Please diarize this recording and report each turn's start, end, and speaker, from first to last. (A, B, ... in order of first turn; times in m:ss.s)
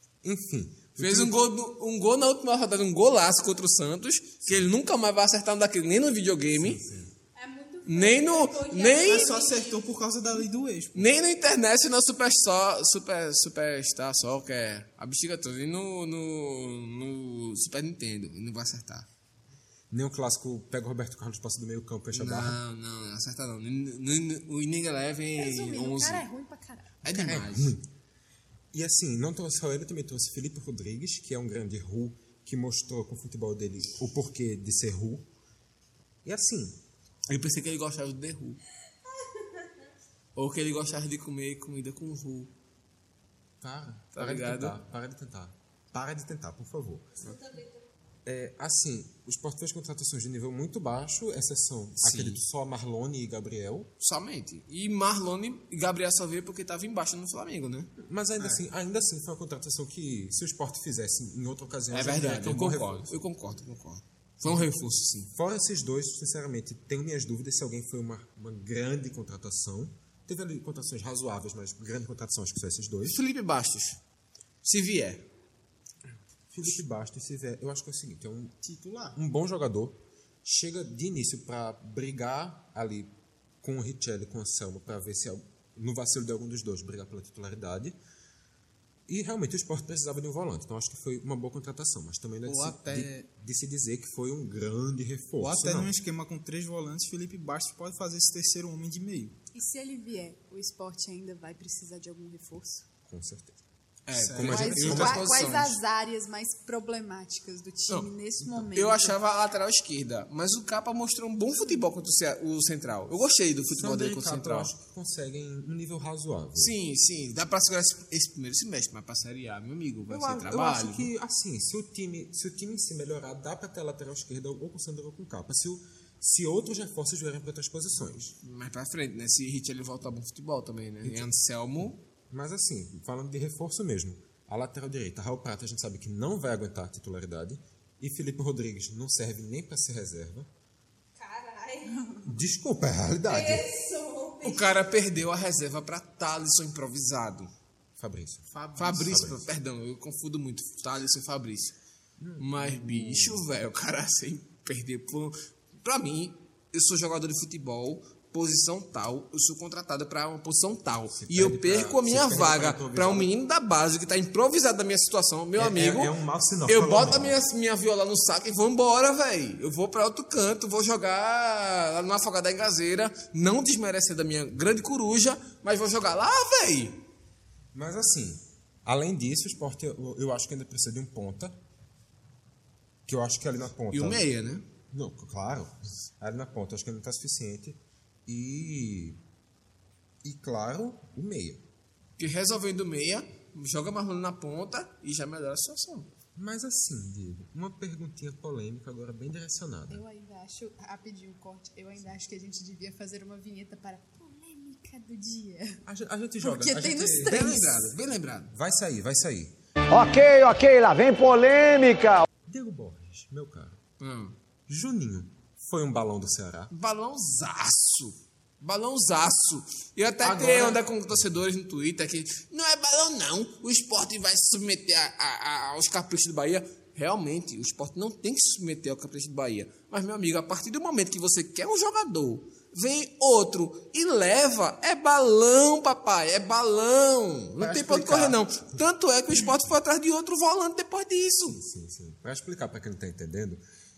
0:00.2-0:01.4 A
0:01.0-0:06.8 B
0:06.5-0:07.1 A
0:07.4-0:09.6 C
0:07.9-0:09.3 B
0:08.0-0:09.5 D
0:09.0-0:11.1 E
0:11.0-0:19.1 B
0:19.9-0:22.6 A
0:22.1-0:26.3 B
0:25.4-0:26.9 C
0:27.0-0:27.8 B
0:27.1-0:27.8 A
0:28.7-0:35.3 A
0:36.2-0:36.8 A
0:37.3-0:38.6 B
0:40.4-0:42.5 B
0:43.6-0:47.1 A
0:44.2-0:44.8 B
0:48.2-0:53.9 A
0:52.0-0:52.4 B
0:54.0-0:57.9 B
0:58.0-1:03.1 A
1:01.9-1:05.3 B
1:05.3-1:13.2 A
1:13.1-1:14.0 B
1:14.6-1:15.3 B
1:16.5-1:18.6 A
1:18.6-1:19.2 E
1:19.1-1:28.0 A
1:29.1-1:35.9 A
1:32.4-1:33.3 E
1:35.4-1:39.4 E
1:39.5-1:42.8 C
1:43.0-1:43.6 A
1:44.1-1:45.8 B
1:44.1-1:45.1 E
1:44.2-1:45.3 A
1:44.5-1:49.2 C
1:48.4-1:48.7 A
1:48.7-1:54.7 B
1:53.7-1:56.8 A
1:56.6-2:01.1 B
2:00.1-2:08.4 A
2:08.4-2:12.0 B
2:11.0-2:11.3 A
2:11.8-2:20.5 A
2:21.3-2:21.7 D
2:22.2-2:23.7 A
2:24.1-2:24.4 C
2:24.4-2:27.5 B
2:28.0-2:29.5 A
2:28.5-2:29.2 E
2:28.8-2:31.8 B
2:32.2-2:33.5 A
2:32.4-2:46.1 B
2:41.2-2:43.3 A
2:45.6-2:47.4 A
2:46.7-2:57.0 B
2:57.7-3:01.6 A
3:03.1-3:04.3 A
3:03.9-3:04.6 B
3:04.9-3:09.2 A
3:10.2-3:11.6 A
3:12.2-3:16.1 B
3:16.4-3:20.0 A
3:19.9-3:25.8 C
3:25.9-3:28.0 A
3:26.4-3:27.8 C
3:27.2-3:28.5 B
3:28.5-3:29.6 A
3:29.9-3:32.3 F
3:32.5-3:33.8 A
3:34.0-3:34.4 B
3:34.7-3:36.7 A
3:36.7-4:01.6 B
3:40.2-3:41.2 A
3:57.6-3:58.5 A
4:01.4-4:03.6 A